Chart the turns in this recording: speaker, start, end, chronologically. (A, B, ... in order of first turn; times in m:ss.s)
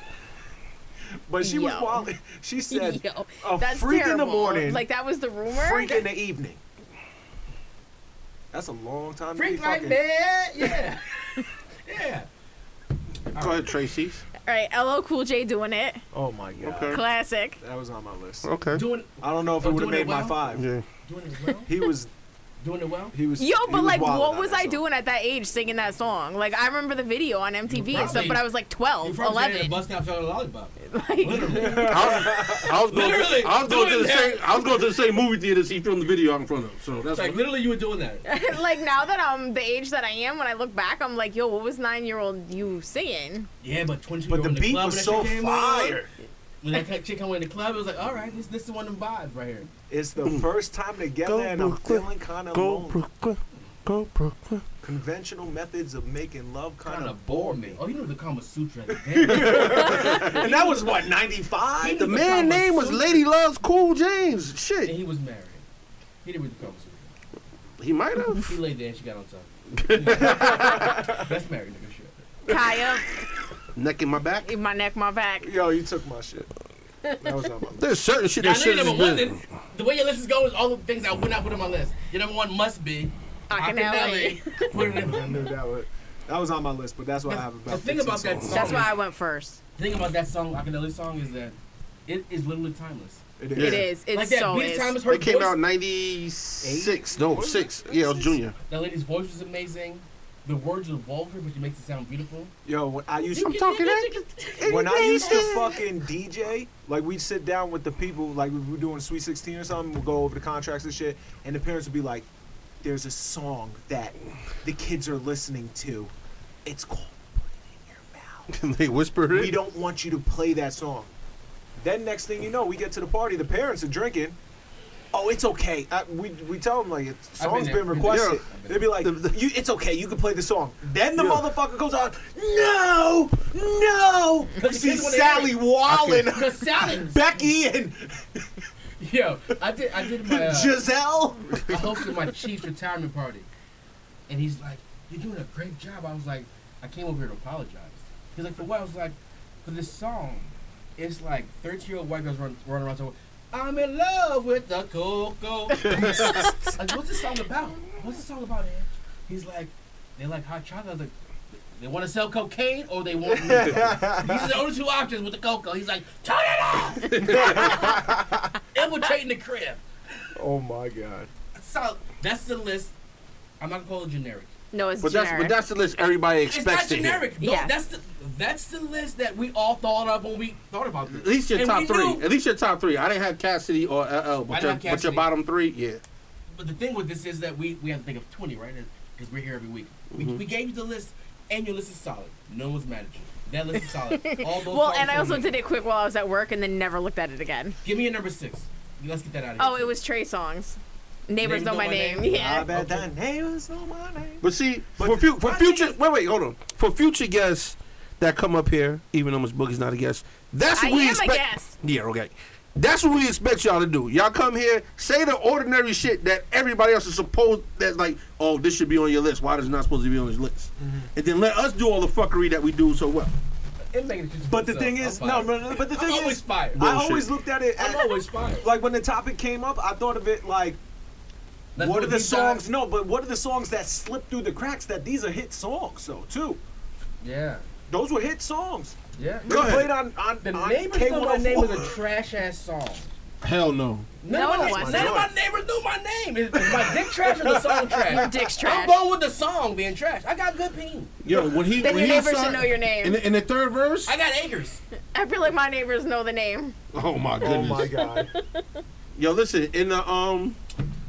0:01.3-0:04.8 A
0:01.4-0:02.1 B
0:02.7-0:06.0 B
0:05.5-0:06.6 A
0:08.5-0:10.0 A
0:09.4-0:12.3 C
0:13.3-0:13.7 C
0:13.4-0:14.2 D
0:14.4-0:16.0 B
0:16.1-0:17.0 A
0:16.6-0:17.0 D
0:16.9-0:17.6 B
0:17.6-0:18.5 A
0:18.4-0:18.9 D
0:18.7-0:20.5 C
0:19.2-0:20.6 A
0:20.5-0:20.8 D
0:21.0-0:21.7 C
0:21.7-0:22.1 A
0:22.6-0:23.2 C
0:23.1-0:24.8 A
0:23.4-0:29.8 B
0:27.7-0:28.5 C
0:27.9-0:28.3 A
0:29.0-0:34.6 C
0:30.8-0:32.0 B
0:31.5-0:32.7 A
0:31.9-0:37.4 D
0:37.1-0:38.3 C
0:38.3-0:43.5 B
0:43.6-0:46.1 C
0:44.3-0:46.1 A
0:46.6-0:49.7 C
0:49.9-0:53.0 A
0:50.2-0:50.5 D
0:51.2-0:54.6 D
0:54.8-0:57.8 A
0:56.8-1:00.8 C
0:59.0-1:02.2 A
0:59.9-1:00.6 B
1:01.8-1:03.2 C
1:02.0-1:05.0 D
1:04.8-1:05.6 C
1:06.2-1:07.1 C
1:07.8-1:08.5 D
1:08.4-1:12.3 C
1:09.7-1:11.1 D
1:10.1-1:11.2 A
1:12.5-1:13.1 B
1:13.8-1:14.5 D
1:14.4-1:15.5 B
1:15.4-1:16.5 A
1:17.2-1:17.9 A
1:17.8-1:19.4 D
1:18.4-1:25.5 C
1:23.5-1:24.7 B
1:24.8-1:25.0 D
1:24.9-1:28.8 A
1:27.3-1:29.0 C
1:28.4-1:28.8 D
1:28.5-1:29.6 B
1:29.8-1:33.2 C
1:33.4-1:33.9 A
1:33.6-1:33.9 D
1:33.6-1:35.0 B
1:34.1-1:35.6 C
1:35.1-1:38.6 D
1:36.6-1:38.4 A
1:38.7-1:42.5 C
1:42.6-1:43.6 A
1:43.3-1:45.8 C
1:43.4-1:45.8 D
1:44.7-1:52.3 A
1:52.8-1:56.1 A
1:56.6-1:58.5 A
1:58.5-1:59.6 D
1:59.3-2:01.1 A
2:01.8-2:04.4 A
2:05.1-2:18.5 A
2:07.4-2:08.9 C
2:08.0-2:09.4 D
2:11.1-2:11.6 D
2:14.6-2:15.6 C
2:15.9-2:16.3 D
2:16.3-2:17.4 C
2:19.0-2:20.8 C
2:20.1-2:22.1 A
2:21.7-2:23.5 C
2:24.3-2:41.1 C
2:36.0-2:36.5 A
2:41.8-2:48.0 C
2:43.3-2:44.6 A
2:47.1-2:47.8 D
2:47.2-2:48.5 A
2:48.7-2:49.8 C
2:50.4-2:51.3 A
2:51.6-2:52.9 C
2:53.6-2:54.5 C
2:54.7-2:55.6 B
2:55.0-2:57.3 D
2:56.5-3:02.2 C
2:57.4-2:57.7 B
3:01.1-3:06.0 D
3:04.5-3:05.3 C
3:06.5-3:15.5 C
3:10.1-3:10.4 D
3:14.2-3:17.8 B
3:17.8-3:20.0 C
3:19.6-3:22.7 B
3:21.4-3:23.1 C
3:22.3-3:26.0 A
3:24.4-3:43.3 D
3:30.7-3:31.8 B
3:40.8-3:41.1 A
3:43.9-3:46.9 C
3:44.5-3:50.8 A
3:46.8-3:47.3 D
3:47.8-3:48.7 C
3:51.8-3:52.6 C
3:51.8-3:56.6 A
3:57.2-3:57.7 C
3:57.9-4:02.0 A
3:59.2-3:59.7 C
3:59.5-4:00.0 D
4:00.4-4:03.1 C
4:03.4-4:04.1 D
4:04.2-4:11.2 C
4:04.3-4:05.2 B
4:04.3-4:05.3 A
4:06.6-4:08.7 A
4:08.1-4:09.0 B
4:11.2-4:14.1 D
4:11.8-4:13.2 B
4:14.1-4:14.8 C
4:15.1-4:16.8 B
4:16.9-4:17.9 D
4:17.4-4:18.3 A
4:18.0-4:18.6 B
4:19.2-4:20.6 D